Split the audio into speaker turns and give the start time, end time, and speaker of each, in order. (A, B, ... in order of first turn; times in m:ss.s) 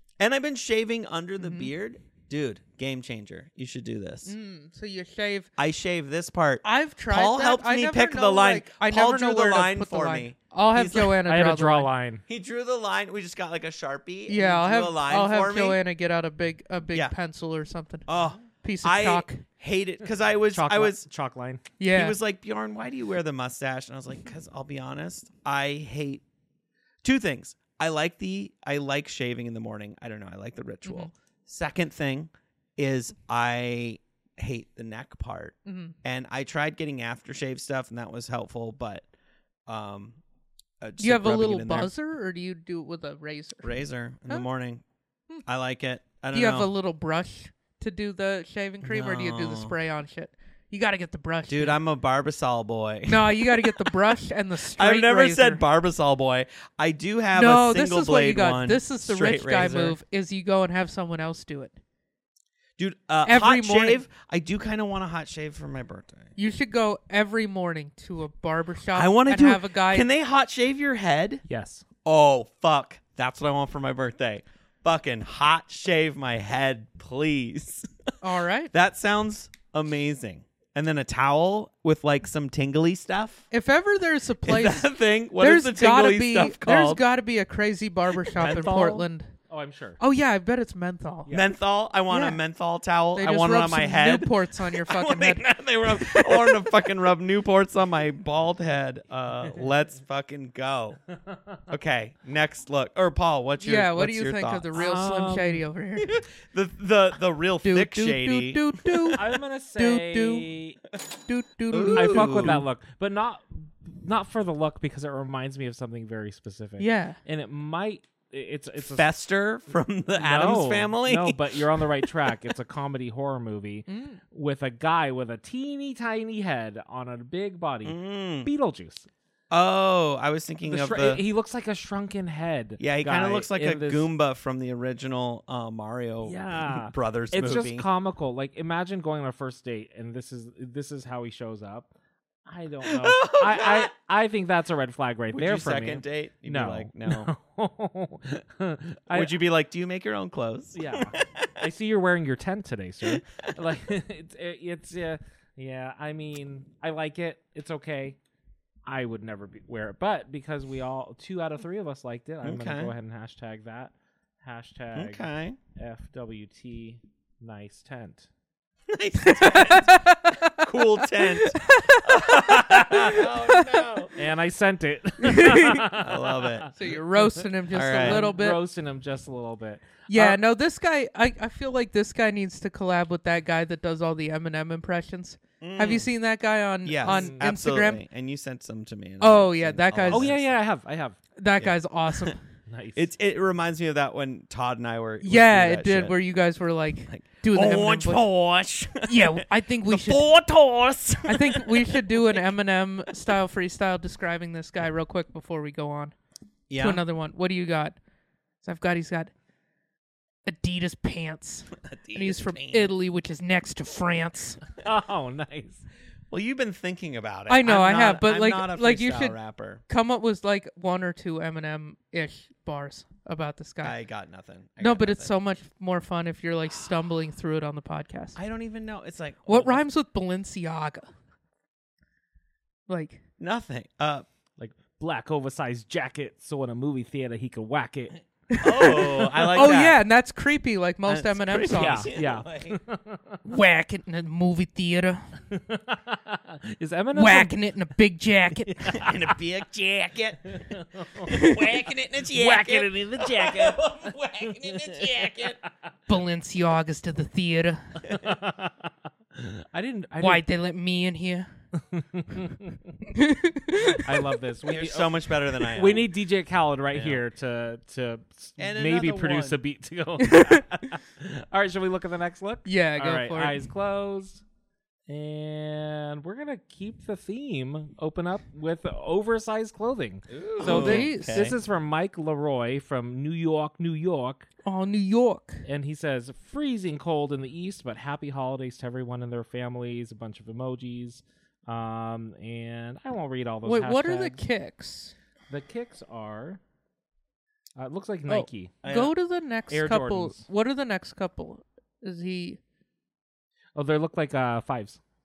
0:00.2-0:04.3 A
0:01.4-0:01.7 B
0:04.2-0:05.5 B
0:05.6-0:11.2 A
0:06.6-0:11.9 B
0:11.2-0:12.2 C
0:12.3-0:15.8 A
0:14.3-0:18.1 B
0:18.1-0:21.1 A
0:18.6-0:19.4 B
0:20.5-0:21.6 C
0:21.8-0:22.2 B
0:21.9-0:26.2 A
0:27.0-0:39.1 A
0:30.8-0:31.1 B
0:35.7-0:36.0 B
0:39.7-0:40.2 A
0:40.8-0:41.9 A
0:41.0-0:43.7 B
0:43.6-0:44.8 A
0:45.4-0:46.7 A
0:46.3-0:51.8 B
0:48.8-0:49.8 A
0:51.5-0:54.0 A
0:53.1-0:55.6 B
0:54.8-1:00.0 A
0:57.3-1:01.8 B
1:02.8-1:06.3 A
1:03.2-1:04.0 B
1:06.4-1:10.1 B
1:08.9-1:11.4 A
1:11.5-1:11.8 C
1:12.0-1:17.9 A
1:18.2-1:18.7 B
1:18.7-1:23.5 A
1:23.5-1:29.3 B
1:24.4-1:27.0 A
1:28.4-1:30.0 C
1:30.0-1:31.3 B
1:31.3-1:41.0 A
1:32.1-1:32.4 B
1:33.2-1:35.4 B
1:41.2-1:41.6 C
1:41.7-1:44.8 A
1:43.6-1:46.2 B
1:44.8-1:45.6 C
1:46.0-1:49.2 A
1:47.6-1:49.2 B
1:49.2-1:50.8 C
1:49.8-1:50.5 B
1:51.3-1:52.6 B
1:51.7-1:52.6 A
1:51.9-1:59.1 C
1:56.8-1:57.2 B
1:58.8-2:02.3 A
2:00.2-2:09.1 C
2:03.9-2:04.2 B
2:07.8-2:08.5 A
2:09.5-2:11.2 A
2:10.7-2:14.1 C
2:12.8-2:17.9 A
2:16.2-2:21.9 C
2:22.5-2:29.3 C
2:22.8-2:23.9 A
2:25.3-2:27.3 A
2:29.1-2:31.6 A
2:30.8-2:38.2 C
2:33.1-2:33.5 A
2:38.9-2:48.3 C
2:42.4-2:42.9 A
2:45.0-2:45.6 A
2:48.9-2:54.2 A
2:49.2-2:54.0 B
2:54.2-3:00.1 C
2:55.2-2:55.9 B
2:55.9-2:56.7 A
2:56.8-2:58.6 B
2:57.7-2:58.3 A
3:00.1-3:08.0 B
3:05.6-3:06.1 A
3:06.8-3:10.6 A
3:07.0-3:07.4 C
3:09.2-3:10.4 B
3:10.1-3:11.2 C
3:11.4-3:12.4 B
3:11.6-3:12.3 A
3:12.7-3:13.1 C
3:13.0-3:16.2 A
3:15.2-3:18.2 B
3:17.1-3:22.5 A
3:19.0-3:20.2 B
3:21.3-3:26.2 B
3:26.7-3:27.0 A
3:26.8-3:28.0 B
3:28.6-3:29.3 B
3:30.5-3:34.6 B
3:31.8-3:32.9 A
3:34.8-3:35.9 C
3:36.3-3:39.8 A
3:37.5-3:39.4 B
3:39.9-3:44.0 B
3:43.8-3:45.3 A
3:44.8-3:48.4 B
3:48.4-3:49.8 A
3:49.5-3:51.1 B
3:52.9-3:53.2 B
3:53.4-3:54.3 A
3:54.6-3:58.2 C
3:58.5-4:02.1 B
3:58.6-4:00.0 A
3:58.8-3:59.7 C
4:01.1-4:02.8 A
4:01.7-4:03.4 C
4:03.4-4:05.3 B
4:05.5-4:07.6 C
4:07.2-4:08.9 B
4:08.7-4:09.4 C
4:08.9-4:10.6 A
4:10.5-4:11.3 C
4:11.2-4:15.6 A
4:11.3-4:11.6 B
4:12.3-4:15.5 C
4:16.1-4:18.0 B
4:18.1-4:20.4 C
4:20.2-4:21.5 B
4:21.9-4:22.8 C
4:23.1-4:24.1 B
4:23.9-4:34.4 C
4:24.7-4:26.1 A
4:26.9-4:27.2 A
4:28.6-4:29.6 A
4:30.2-4:30.6 B
4:32.7-4:33.6 B
4:35.1-4:44.5 C
4:40.3-4:41.6 A
4:40.6-4:41.5 B
4:44.6-4:45.6 B
4:45.7-4:54.4 C
4:53.6-4:55.1 B
4:55.5-4:56.6 C
4:57.8-4:58.8 C
4:58.3-5:02.6 B
4:58.8-4:59.1 A
4:59.7-5:00.4 C
5:03.8-5:05.0 C